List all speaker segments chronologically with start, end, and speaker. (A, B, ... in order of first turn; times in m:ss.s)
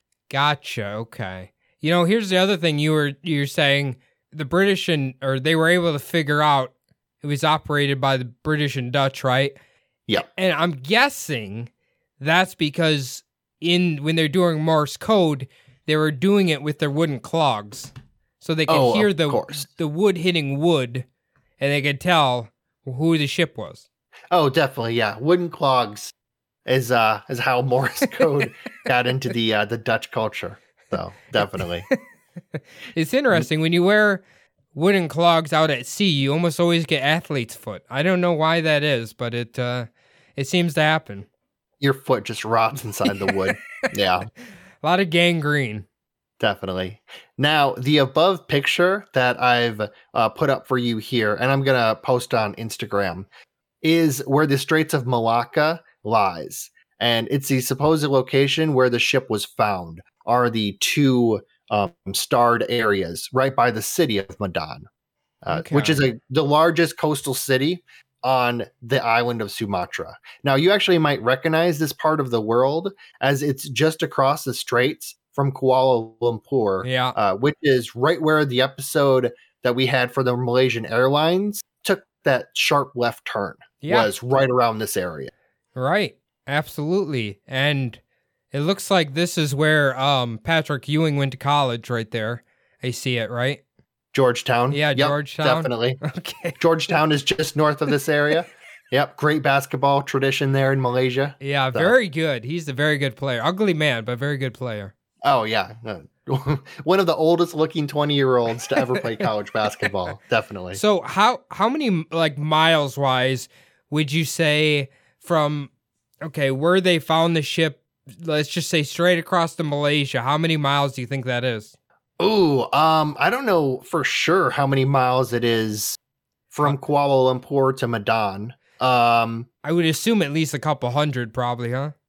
0:00.3-0:09.5 A
0:10.1-0:21.0 A
0:18.7-0:19.7 B
0:21.6-0:23.8 A
0:24.3-0:26.1 B
0:26.6-0:31.9 B
0:32.9-0:34.2 A
0:34.7-0:41.3 A
0:41.8-0:44.3 B
0:44.8-0:45.8 A
0:46.4-0:53.3 B
0:53.8-1:04.9 B
1:05.4-1:25.3 B
1:05.5-1:06.0 A
1:16.8-1:17.2 A
1:23.8-1:24.1 A
1:25.8-1:28.0 A
1:28.5-1:33.6 A
1:34.1-1:36.0 B
1:34.7-1:36.6 A
1:36.6-1:41.9 B
1:41.4-1:44.9 A
1:45.2-1:50.8 B
1:48.8-1:49.2 A
1:50.7-1:55.7 A
1:56.2-2:01.7 A
2:02.2-2:06.0 B
2:06.5-2:09.5 B
2:09.6-2:11.9 A